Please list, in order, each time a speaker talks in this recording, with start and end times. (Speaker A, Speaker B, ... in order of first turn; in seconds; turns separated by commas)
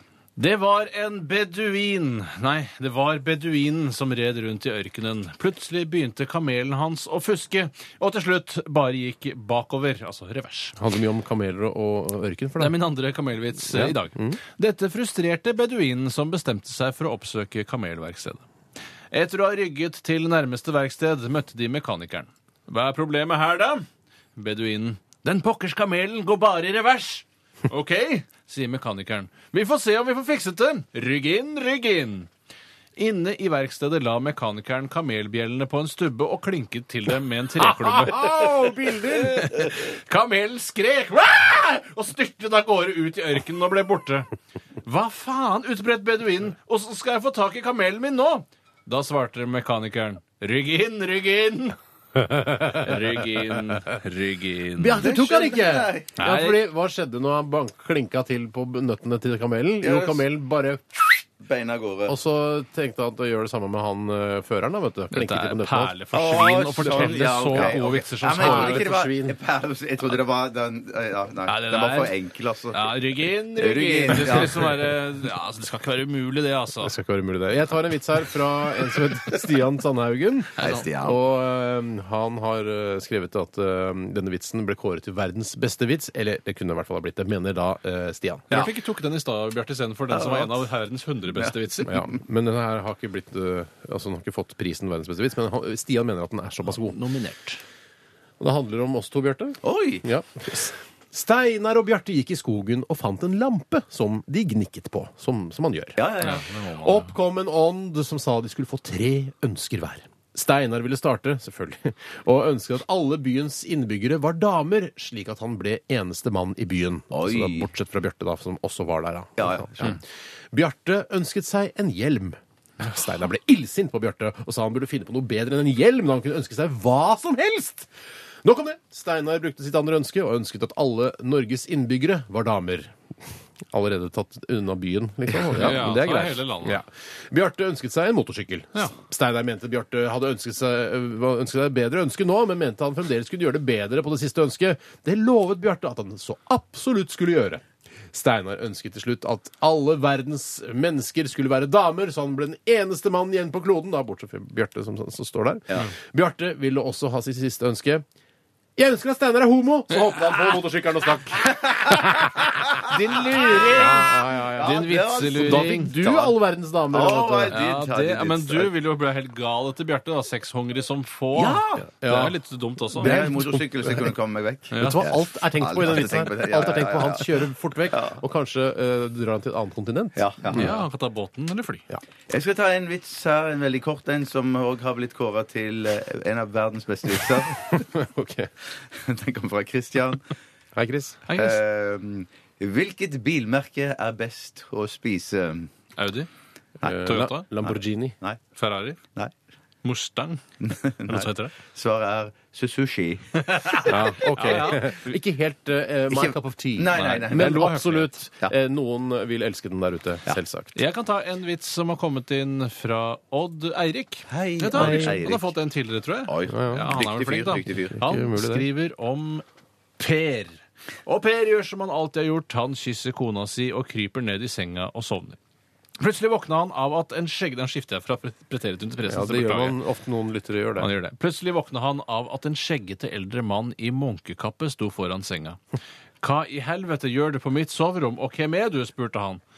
Speaker A: 0.4-10.8, Speaker B: 10.8-12.8, Speaker A: 12.6-18.4, Speaker B: 13.7-14.4, Speaker A: 19.1-32.3, Speaker A: 33.0-38.6, Speaker B: 37.6-39.7, Speaker A: 39.1-44.3, Speaker A: 44.8-51.8, Speaker B: 52.2-52.9, Speaker A: 52.7-55.0, Speaker B: 54.8-61.2, Speaker C: 55.0-56.1, Speaker A: 56.2-56.6, Speaker C: 59.8-60.2, Speaker C: 61.4-62.2, Speaker B: 62.1-65.9, Speaker A: 65.1-68.9, Speaker C: 66.1-74.8, Speaker B: 66.8-69.4, Speaker A: 71.5-72.1, Speaker A: 72.7-76.9, Speaker B: 76.8-88.5, Speaker C: 80.6-81.2, Speaker A: 80.6-80.9, Speaker A: 88.5-92.1, Speaker C: 90.1-90.6, Speaker B: 91.8-97.0, Speaker A: 96.7-97.6, Speaker B: 98.4-106.0, Speaker C: 99.6-100.0, Speaker C: 106.0-106.5, Speaker A: 106.2-107.1, Speaker B: 106.8-120.0, Speaker C: 117.1-117.7, Speaker C: 119.4-120.0, Speaker B: 120.5-127.9, Speaker B: 128.4-132.9, Speaker B: 133.7-158.1, Speaker A: 135.5-136.8, Speaker B: 158.8-162.8, Speaker A: 162.9-166.0, Speaker C: 163.4-164.0, Speaker B: 163.5-167.6, Speaker C: 164.5-166.4, Speaker C: 166.9-168.7, Speaker A: 167.5-173.2, Speaker C: 171.3-171.8, Speaker B: 171.8-172.4, Speaker B: 172.9-174.1, Speaker C: 173.0-178.2, Speaker A: 174.7-175.1, Speaker B: 174.8-180.8, Speaker C: 180.2-180.8, Speaker A: 180.5-181.9, Speaker C: 182.3-187.8, Speaker B: 187.7-188.5, Speaker C: 188.9-190.3, Speaker B: 190.8-191.2, Speaker A: 191.3-191.6, Speaker C: 191.3-195.7, Speaker A: 196.0-196.3, Speaker C: 196.8-197.1, Speaker B: 196.8-198.2, Speaker A: 197.0-197.5, Speaker C: 197.6-198.4, Speaker A: 198.6-199.0, Speaker A: 199.8-200.4, Speaker C: 200.6-204.7, Speaker A: 201.1-201.6, Speaker A: 203.4-205.0, Speaker B: 203.9-210.8, Speaker C: 206.1-208.5, Speaker A: 206.9-208.1, Speaker A: 210.8-219.4, Speaker C: 214.3-215.5, Speaker B: 214.7-215.2, Speaker C: 216.3-218.0, Speaker B: 216.5-216.9, Speaker B: 218.0-218.7, Speaker A: 220.0-225.4, Speaker A: 226.0-229.8, Speaker B: 229.1-230.9, Speaker A: 230.8-235.6, Speaker A: 236.2-239.4